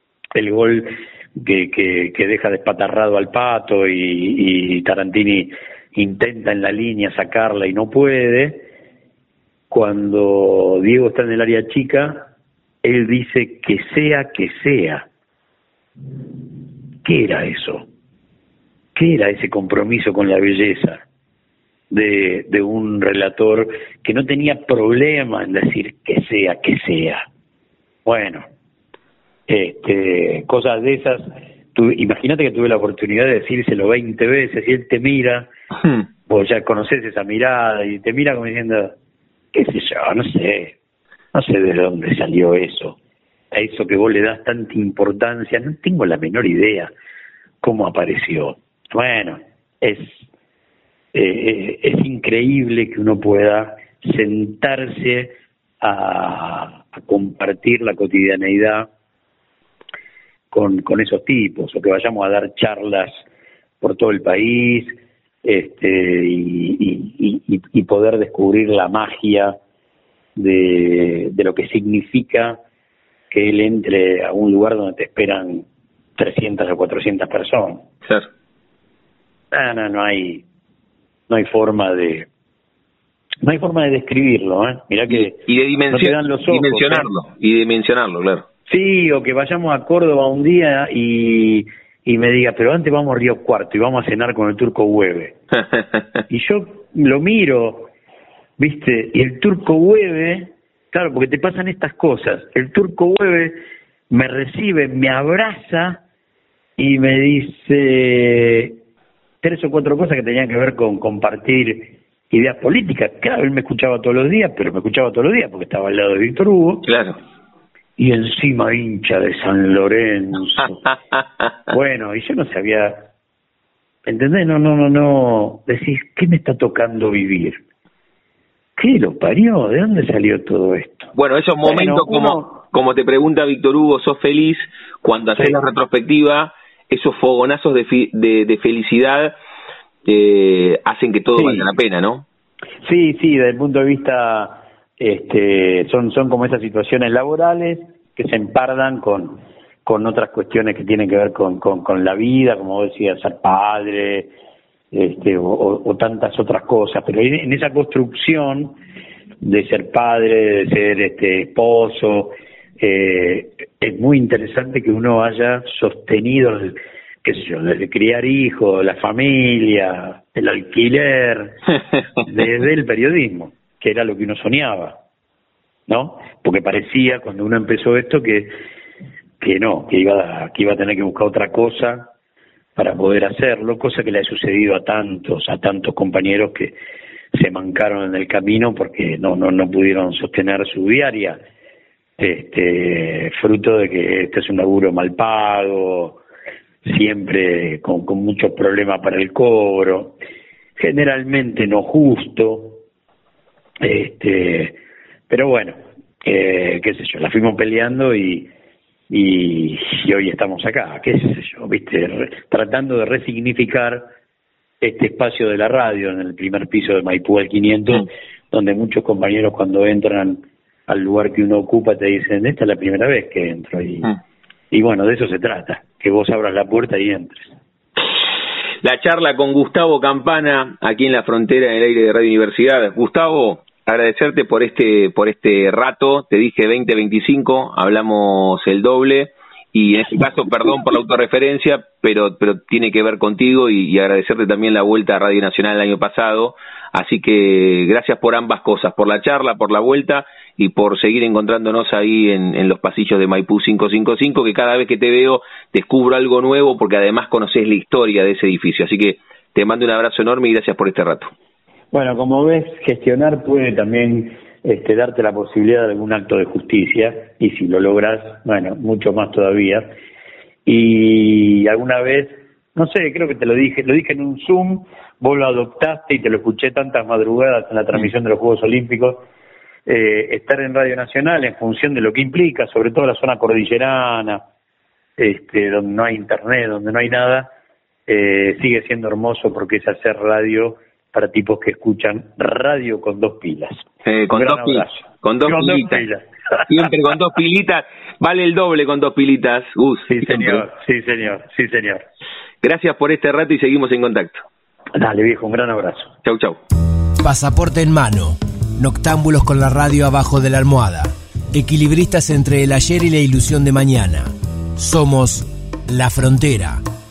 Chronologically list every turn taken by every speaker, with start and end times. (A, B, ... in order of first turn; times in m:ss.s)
0:00.3-0:08.7 A
0:09.7-0:12.3 A
0:12.8-0:15.1 A
0:17.0-0:17.8 A
0:18.9-0:21.0 A
0:21.9-0:27.2 A
0:28.0-0:28.4 A
0:29.5-0:35.5 A
0:36.3-0:38.9 A
0:39.5-0:40.7 A
0:41.3-0:43.0 A
0:43.5-0:46.9 A
0:47.6-0:50.3 A
0:51.1-0:58.9 A
1:00.5-1:03.1 A
1:03.8-1:09.6 A
1:10.4-1:12.6 A
1:13.3-1:15.6 A
1:16.2-1:17.8 A
1:19.5-1:20.4 A
1:21.3-1:22.3 A
1:23.4-1:27.1 A
1:25.1-1:28.5 B
1:28.7-1:35.4 A
1:36.3-1:37.9 A
1:38.6-1:43.6 A
1:44.1-1:46.0 A
1:46.8-1:48.8 A
1:49.4-1:56.9 A
1:56.8-1:57.2 B
1:58.0-2:00.9 A
2:01.7-2:03.1 A
2:04.0-2:07.6 A
2:08.8-2:11.1 A
2:11.1-2:19.3 B
2:11.6-2:12.6 A
2:20.0-2:22.2 B
2:21.4-2:21.7 A
2:22.8-2:34.3 A
2:34.9-2:38.8 A
2:39.4-2:51.6 A
2:52.2-2:55.0 A
2:55.9-2:58.5 A
2:59.4-3:02.1 A
3:02.8-3:06.8 A
3:07.3-3:11.4 A
3:12.2-3:16.2 A
3:16.8-3:20.2 A
3:20.8-3:22.8 A
3:23.8-3:24.8 A
3:25.3-3:28.5 A
3:29.1-3:34.1 A
3:34.8-3:44.1 A
3:44.7-3:47.5 A
3:48.8-4:21.3 B
4:21.9-4:29.9 A
4:30.6-4:39.2 A
4:39.8-4:44.4 A
4:45.2-4:47.5 A
4:48.1-4:56.9 A
4:54.0-4:56.0 B
4:56.7-5:00.6 B
5:00.1-5:02.0 A
5:02.6-5:04.4 B
5:04.9-5:06.1 A
5:06.2-5:06.6 B
5:07.2-5:16.8 C